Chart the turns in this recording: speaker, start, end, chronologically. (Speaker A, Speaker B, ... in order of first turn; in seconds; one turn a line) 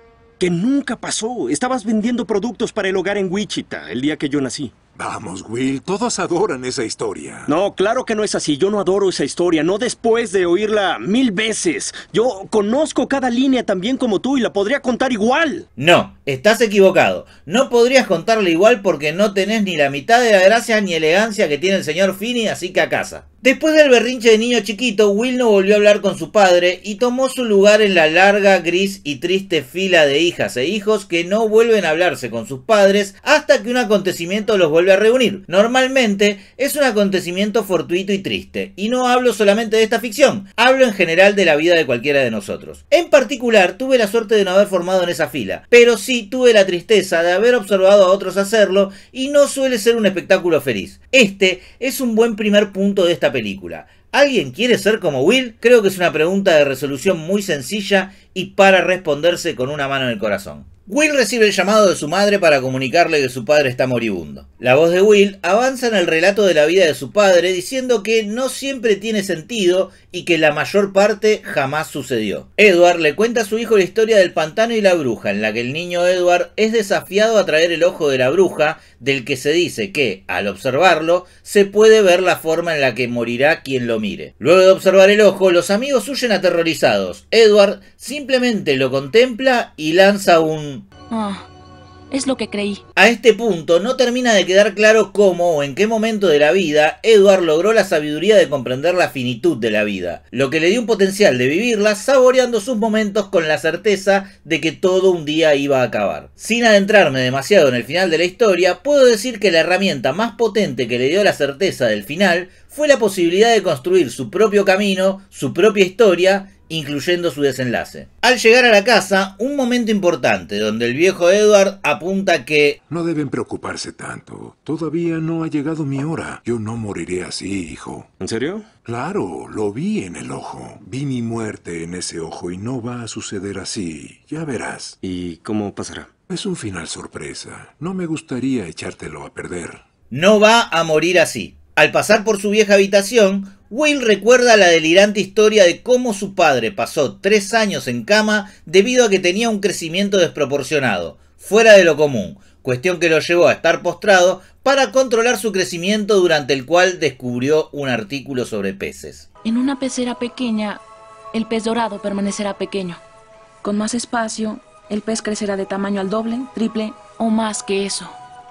Speaker A: 0.4-4.7
Speaker B: 5.0-7.5
Speaker A: 7.5-15.7
Speaker C: 15.8-90.9
Speaker D: 91.1-91.5
Speaker D: 92.1-92.8
Speaker C: 93.0-122.8
Speaker B: 122.9-128.1
Speaker A: 128.2-128.7
Speaker B: 128.9-134.9
Speaker A: 135.0-136.1
Speaker B: 136.3-139.8
Speaker C: 140.1-159.3
Speaker D: 159.4-163.0
Speaker D: 163.6-168.2